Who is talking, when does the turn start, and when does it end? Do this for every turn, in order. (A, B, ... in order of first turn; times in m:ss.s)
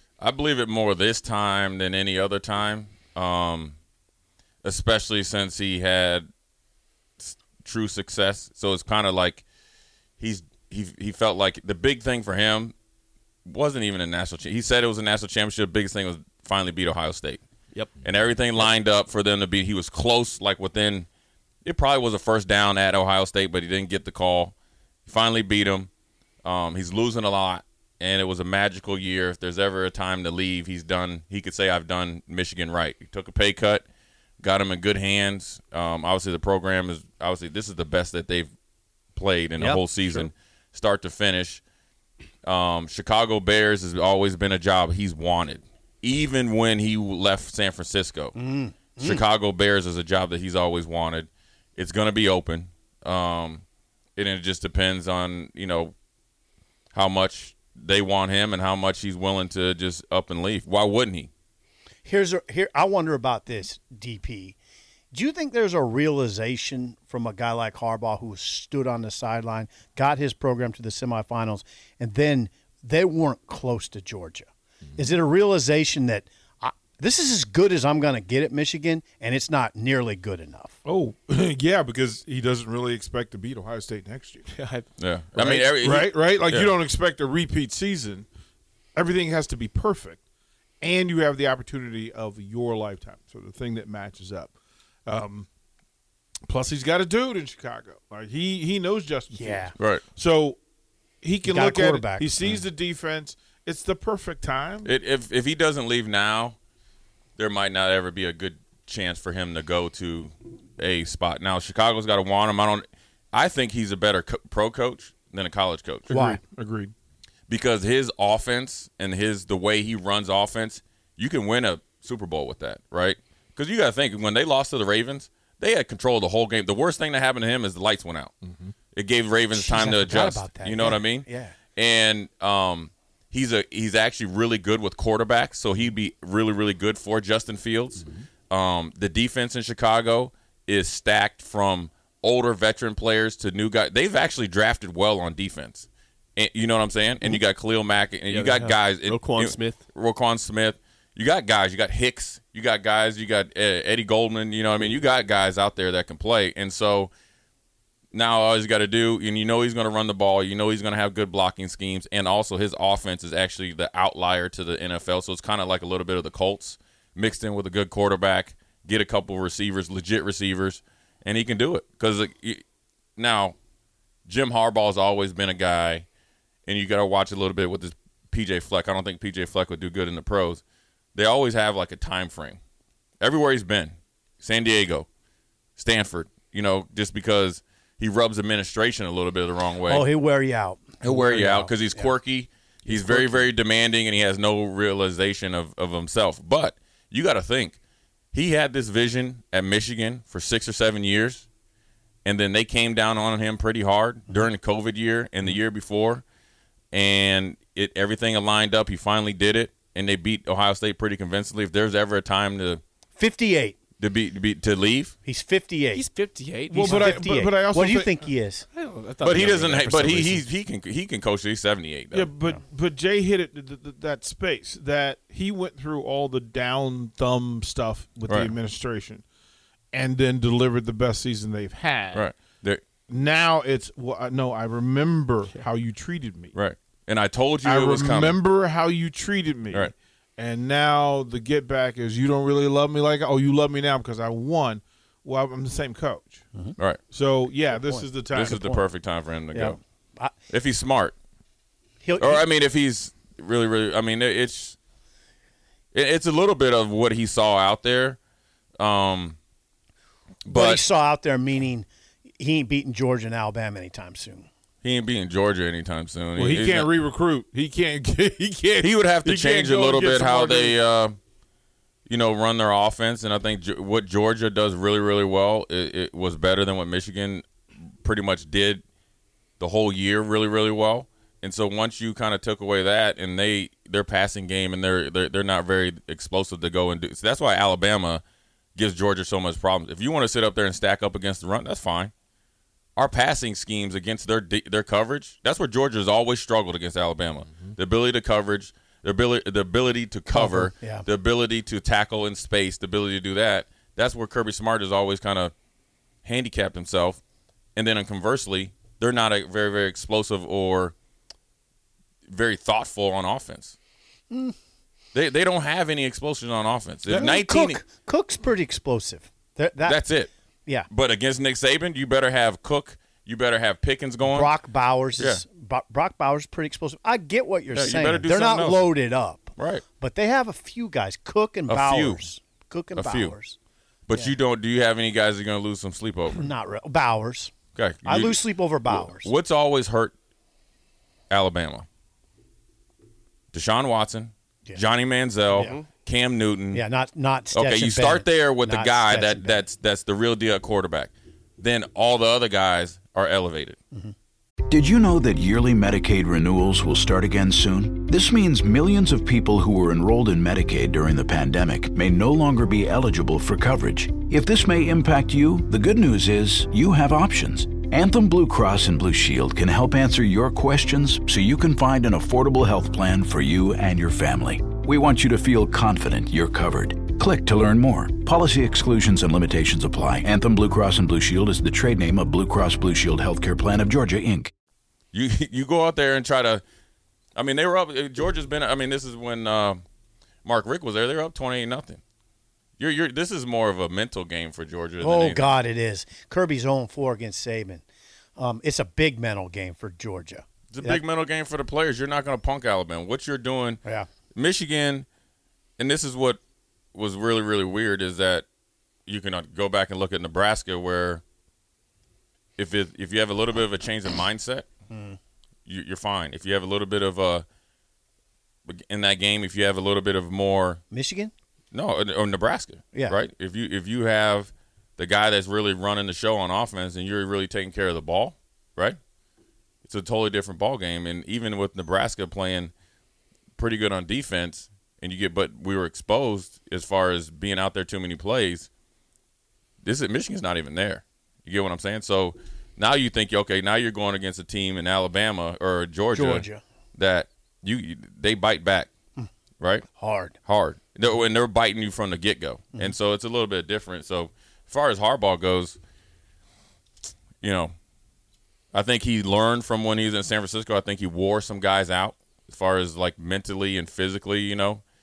0:00.2-0:03.7 A
0:04.6-0:06.3 A
0:07.2-0:09.4 A
0:10.2-0:12.7 A
0:13.4-0:17.4 A
0:18.0-0:21.1 A
0:21.6-0:24.5 A
0:25.0-0:25.9 A
0:26.4-0:33.8 A
0:34.4-0:38.5 A
0:39.1-0:41.6 A
0:39.6-0:40.3 B
0:42.4-0:48.3 A
0:48.3-0:49.2 B
0:49.0-0:53.6 A
0:54.2-0:55.9 A
0:56.9-1:01.3 A
1:02.0-1:04.6 B
1:05.1-1:14.4 B
1:15.0-1:20.8 B
1:20.8-1:24.5 C
1:24.5-1:24.8 D
1:25.0-1:26.7 A
1:25.4-1:28.2 C
1:29.0-1:30.2 C
1:30.8-1:34.5 C
1:35.1-1:35.5 C
1:36.5-1:40.6 C
1:39.3-1:39.7 B
1:41.2-1:44.9 C
1:41.4-1:42.3 B
1:44.8-1:46.6 A
1:47.4-1:56.1 A
1:56.1-1:56.9 C
1:56.1-1:56.4 B
1:57.5-2:08.3 A
2:08.5-2:08.7 C
2:08.9-2:37.1 A
2:09.5-2:11.5 B
2:28.3-2:29.8 D
2:38.1-2:52.6 A
2:53.2-2:53.6 A
2:54.2-2:56.0 A
2:56.6-3:00.6 A
3:01.1-3:02.6 A
3:03.2-3:05.1 A
3:05.8-3:10.0 A
3:09.9-3:12.1 B
3:11.0-3:17.8 A
3:12.9-3:13.4 B
3:18.3-3:21.4 A
3:22.2-3:26.2 A
3:26.9-3:32.8 A
3:33.2-3:33.8 B
3:34.0-3:35.1 A
3:35.2-3:36.0 B
3:35.9-3:37.2 D
3:36.7-3:38.3 C
3:36.8-3:38.6 B
3:38.7-3:40.4 D
3:39.2-3:42.3 A
3:42.1-3:49.2 C
3:48.3-3:48.5 A
3:49.9-3:52.2 C
3:52.1-3:52.8 A
3:53.1-3:56.5 C
3:56.5-3:58.4 A
3:57.6-4:06.4 C
4:07.1-4:08.6 C
4:07.7-4:08.8 B
4:08.3-4:09.8 A
4:09.5-4:10.3 B
4:10.5-4:11.1 A
4:12.0-4:12.4 B
4:12.2-4:14.8 A
4:15.9-4:18.2 A
4:18.8-4:19.4 A
4:20.4-4:20.8 A
4:20.5-4:21.9 B
4:22.4-4:24.5 B
4:24.8-4:26.9 A
4:26.4-4:30.8 C
4:28.8-4:31.2 A
4:32.1-4:37.5 A
4:38.0-4:38.8 A
4:39.6-4:48.2 A
4:48.8-4:52.1 A
4:53.0-5:05.5 A
5:00.3-5:01.0 B
5:06.2-5:07.2 A
5:07.8-5:10.9 A
5:12.3-5:13.8 A
5:15.1-5:17.8 A
5:17.1-5:20.0 B
5:19.8-5:20.3 A
5:20.9-5:24.5 A
5:24.2-5:33.6 B
5:27.7-5:28.8 A
5:29.6-5:29.8 A
5:31.7-5:32.2 A
5:33.0-5:33.3 A
5:34.1-5:36.5 A
5:36.3-5:37.5 B
5:37.7-5:40.1 A
5:38.0-5:39.3 B
5:41.3-5:41.9 A
5:43.5-5:46.8 A
5:45.5-5:45.8 B
5:45.6-5:45.8 D
5:46.7-5:49.6 B
5:47.5-5:53.8 A
5:54.7-6:24.5 E
6:25.1-6:26.6 A
6:27.3-6:29.8 A
6:30.4-6:32.0 A
6:32.8-6:35.5 A
6:35.0-6:37.8 B
6:38.4-6:41.0 B
6:40.7-6:43.8 A
6:44.3-6:45.1 A
6:45.8-6:46.4 A
6:46.9-6:48.4 A
6:49.0-6:51.2 A
6:52.6-6:54.6 A
6:54.9-6:55.2 B
6:55.6-6:57.4 A
6:58.6-7:00.8 A
7:00.9-7:01.3 B
7:01.7-7:09.0 A
7:02.9-7:03.2 B
7:09.8-7:12.7 A
7:13.6-7:18.7 A
7:19.8-7:28.9 A
7:26.1-7:26.6 B
7:29.6-7:29.8 A
7:29.9-7:30.4 B
7:30.4-7:35.8 A
7:37.4-7:37.7 A
7:38.7-7:44.8 A